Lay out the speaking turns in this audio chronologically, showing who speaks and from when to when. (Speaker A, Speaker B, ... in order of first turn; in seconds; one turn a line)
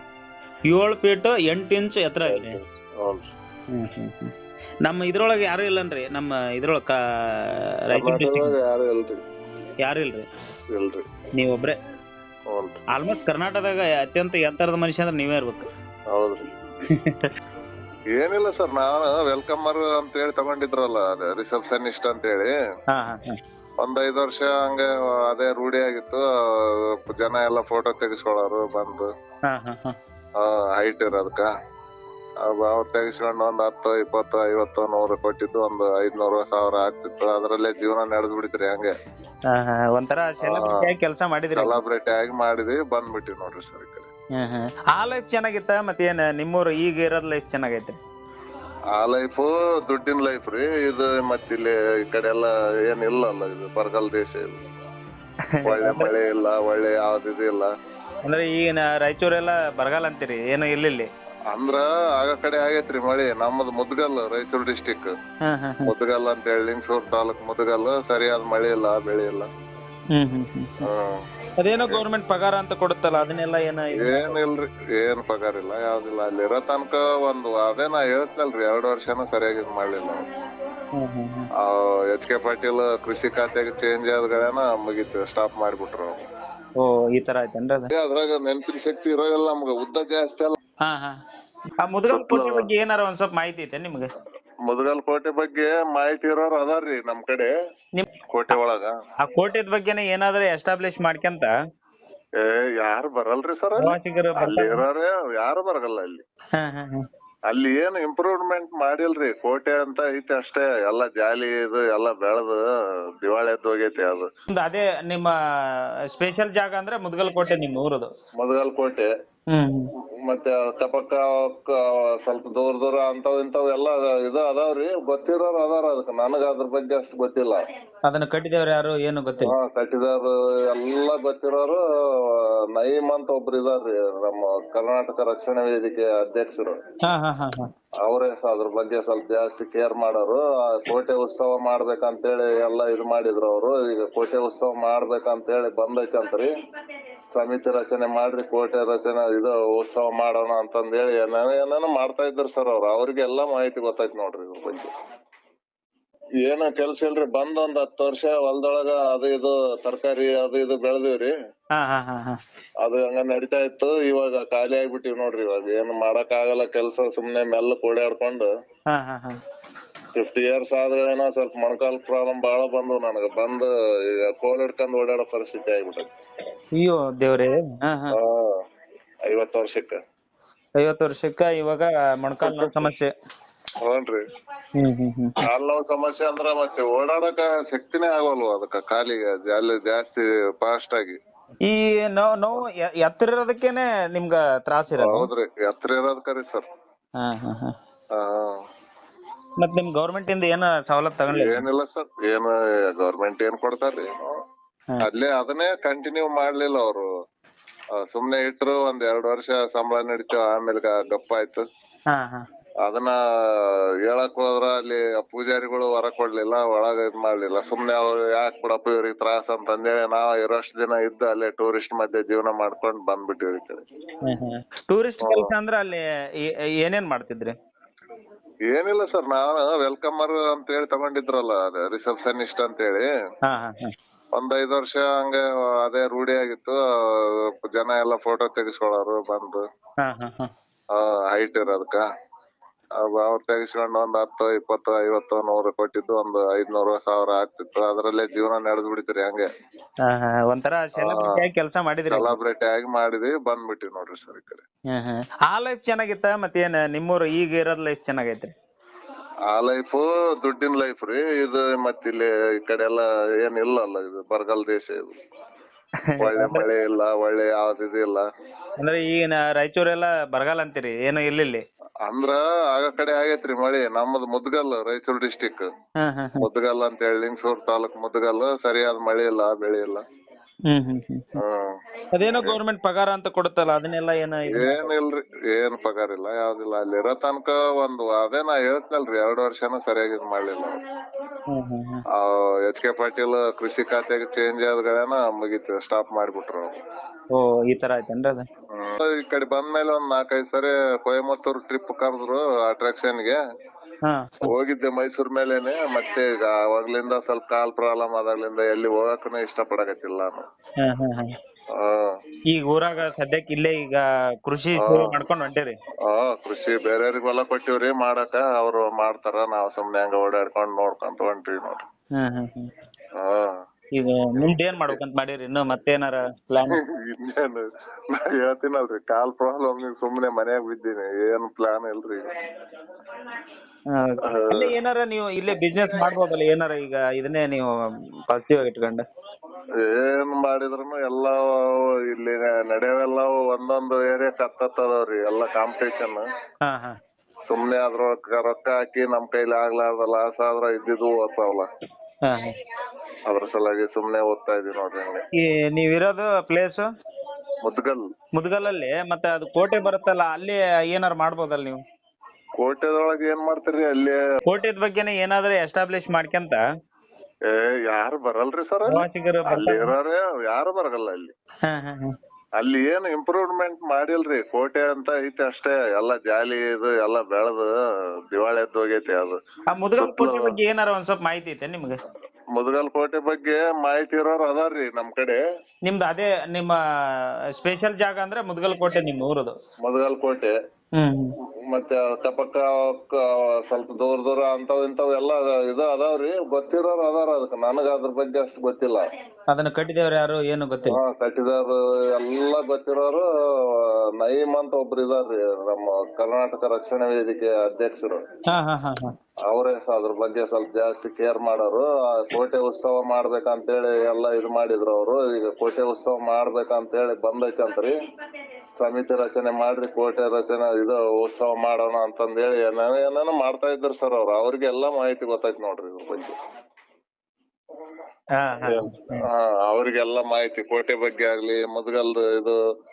Speaker A: 0.7-2.6
Speaker B: 2.2-3.3
Speaker A: 3.7-4.3
Speaker A: 4.8-8.6
Speaker B: 7.9-9.2
Speaker A: 9.8-10.3
Speaker B: 10.7-11.0
Speaker A: 11.3-11.8
Speaker B: 12.5-12.8
Speaker A: 12.9-15.7
Speaker B: 16.1-16.4
Speaker A: 16.9-17.3
Speaker B: 18.1-22.5
Speaker A: 22.9-23.4
Speaker B: 23.8-29.1
Speaker A: 29.5-29.9
Speaker B: 30.4-31.5
Speaker B: 32.4-38.9
Speaker A: 39.5-41.8
Speaker B: 40.4-40.9
Speaker B: 41.5-44.1
Speaker A: 44.4-48.0
Speaker B: 48.9-54.6
Speaker A: 55.5-56.1
Speaker B: 55.6-57.7
Speaker A: 58.2-61.1
Speaker B: 61.5-65.1
Speaker A: 65.4-65.9
Speaker B: 65.8-69.5
Speaker A: 70.1-70.8
Speaker B: 70.8-71.2
Speaker A: 71.6-74.3
Speaker B: 73.9-80.2
Speaker A: 80.9-81.5
Speaker B: 81.6-86.2
Speaker A: 86.8-87.9
Speaker B: 87.9-90.5
Speaker A: 90.8-91.2
Speaker A: 91.8-94.1
Speaker B: 92.1-92.7
Speaker B: 94.7-97.5
Speaker A: 98.0-98.5
Speaker B: 98.3-98.9
Speaker A: 99.2-101.5
Speaker B: 102.4-106.2
Speaker A: 103.8-104.8
Speaker A: 106.5-107.1
Speaker B: 107.5-112.6
Speaker B: 113.2-114.3
Speaker A: 114.5-118.1
Speaker B: 118.4-119.1
Speaker A: 119.5-119.9
Speaker B: 120.2-127.6
Speaker A: 128.1-129.5
Speaker B: 129.4-136.8
Speaker A: 137.0-137.7
Speaker B: 138.0-146.5
Speaker B: 147.3-154.9
Speaker B: 156.4-161.3
Speaker A: 161.7-162.4
Speaker B: 162.8-168.5
Speaker A: 168.9-169.4
Speaker B: 170.1-176.1
Speaker A: 176.8-178.1
Speaker B: 178.1-178.6
Speaker B: 179.2-180.0
Speaker A: 180.8-183.1
Speaker B: 182.4-182.8
Speaker B: 183.8-184.2
Speaker A: 184.8-185.4
Speaker B: 185.4-191.2
Speaker A: 191.6-195.3
Speaker B: 194.9-196.7
Speaker A: 197.2-197.7
Speaker B: 198.1-198.6
Speaker A: 199.6-201.7
Speaker B: 201.3-204.3
Speaker B: 205.0-207.1
Speaker B: 207.9-211.6
Speaker A: 212.1-212.4
Speaker B: 212.8-223.8
Speaker A: 224.2-227.6
Speaker B: 225.2-225.5
Speaker B: 228.7-233.1
Speaker A: 233.5-233.9
Speaker B: 234.3-239.6
Speaker A: 240.0-240.5
Speaker B: 240.9-242.0
Speaker B: 243.0-249.5
Speaker A: 250.0-252.3
Speaker B: 250.9-251.4
Speaker B: 252.1-254.6
Speaker A: 254.9-258.5
Speaker B: 259.5-265.1
Speaker A: 266.1-266.6
Speaker B: 266.2-268.2
Speaker A: 268.8-271.6
Speaker B: 272.0-275.7
Speaker A: 276.0-276.5
Speaker B: 276.4-280.0
Speaker A: 280.7-281.3
Speaker B: 281.3-282.6
Speaker A: 282.1-284.9
Speaker B: 284.4-290.8
Speaker A: 291.5-292.0
Speaker B: 292.1-296.8
Speaker A: 297.3-298.5
Speaker B: 298.7-303.4
Speaker A: 304.0-304.5
Speaker B: 304.4-310.4
Speaker A: 310.8-311.4
Speaker B: 311.7-312.2
Speaker A: 312.5-315.8
Speaker B: 314.8-315.2
Speaker B: 316.0-321.8
Speaker A: 322.1-322.7
Speaker B: 323.1-323.6
Speaker A: 323.9-326.8
Speaker B: 324.4-325.0
Speaker B: 326.7-332.5
Speaker A: 333.9-337.7
Speaker B: 334.2-334.7
Speaker A: 338.3-339.0
Speaker B: 339.8-346.2
Speaker A: 346.6-346.9
Speaker B: 347.4-351.7
Speaker A: 352.2-352.6
Speaker B: 353.3-355.2
Speaker A: 355.4-356.9
Speaker B: 357.6-358.0
Speaker A: 358.4-361.8
Speaker B: 362.6-364.2
Speaker A: 364.5-366.6
Speaker B: 367.5-371.3
Speaker A: 368.9-369.9
Speaker A: 371.7-372.1
Speaker B: 372.6-379.4
Speaker A: 379.7-382.0
Speaker B: 379.9-380.6
Speaker B: 382.5-385.4
Speaker A: 385.8-389.6
Speaker B: 389.8-390.5
Speaker A: 390.9-391.3
Speaker B: 391.4-399.0
Speaker A: 399.5-401.0
Speaker B: 400.8-408.2
Speaker A: 408.5-409.1
Speaker B: 409.5-417.9
Speaker B: 418.8-426.3
Speaker A: 428.4-429.2
Speaker B: 428.6-432.6